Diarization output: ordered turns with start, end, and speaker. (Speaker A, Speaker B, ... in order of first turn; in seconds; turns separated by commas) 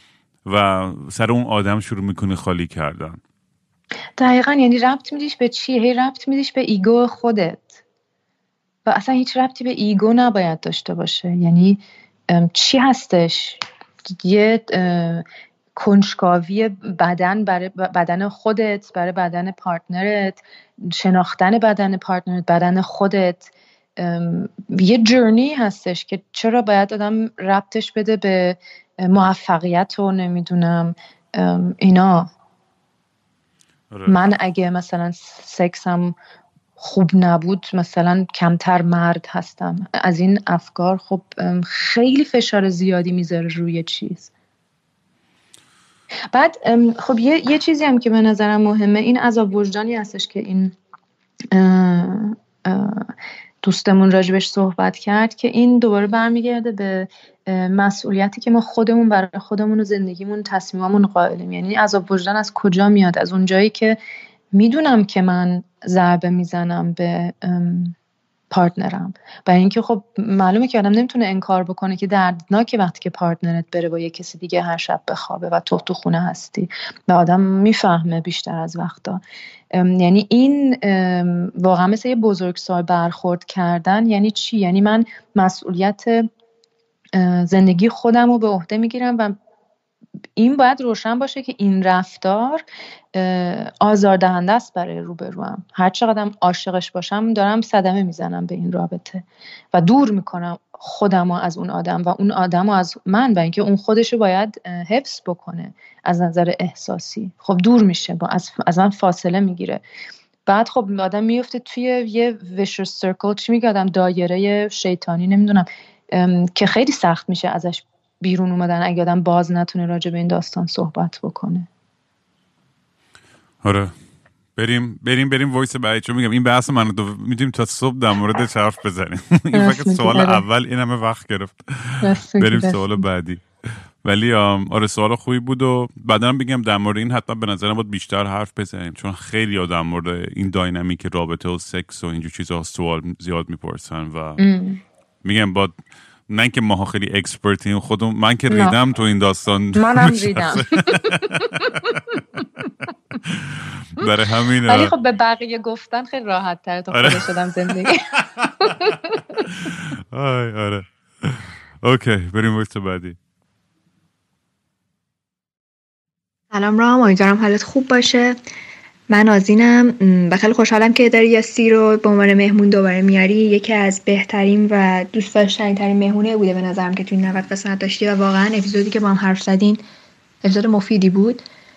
Speaker A: 0.5-3.2, Speaker B: 4.2-7.8, Speaker B: 8.9-13.6, Speaker B: 14.1-15.2, Speaker B: 15.8-32.3, Speaker A: 33.9-34.2, Speaker B: 34.1-36.1, Speaker B: 36.8-44.3, Speaker B: 46.3-50.8, Speaker B: 51.5-53.1, Speaker B: 53.6-64.0, Speaker B: 64.5-68.0, Speaker B: 68.5-79.2, Speaker B: 79.7-86.3, Speaker B: 87.1-89.4, Speaker B: 90.4-92.6, Speaker B: 93.1-109.8, Speaker B: 110.5-121.7, Speaker A: 123.6-123.9, Speaker A: 124.6-144.4, Speaker B: 129.5-130.4, Speaker B: 132.0-133.0, Speaker B: 144.4-144.8, Speaker A: 145.2-145.7, Speaker A: 146.3-152.0, Speaker B: 148.5-148.8, Speaker B: 149.8-152.5, Speaker A: 153.3-154.9, Speaker B: 154.7-159.2, Speaker A: 156.9-157.2, Speaker A: 159.5-163.2, Speaker C: 166.5-168.4, Speaker C: 169.1-179.8, Speaker C: 180.4-181.4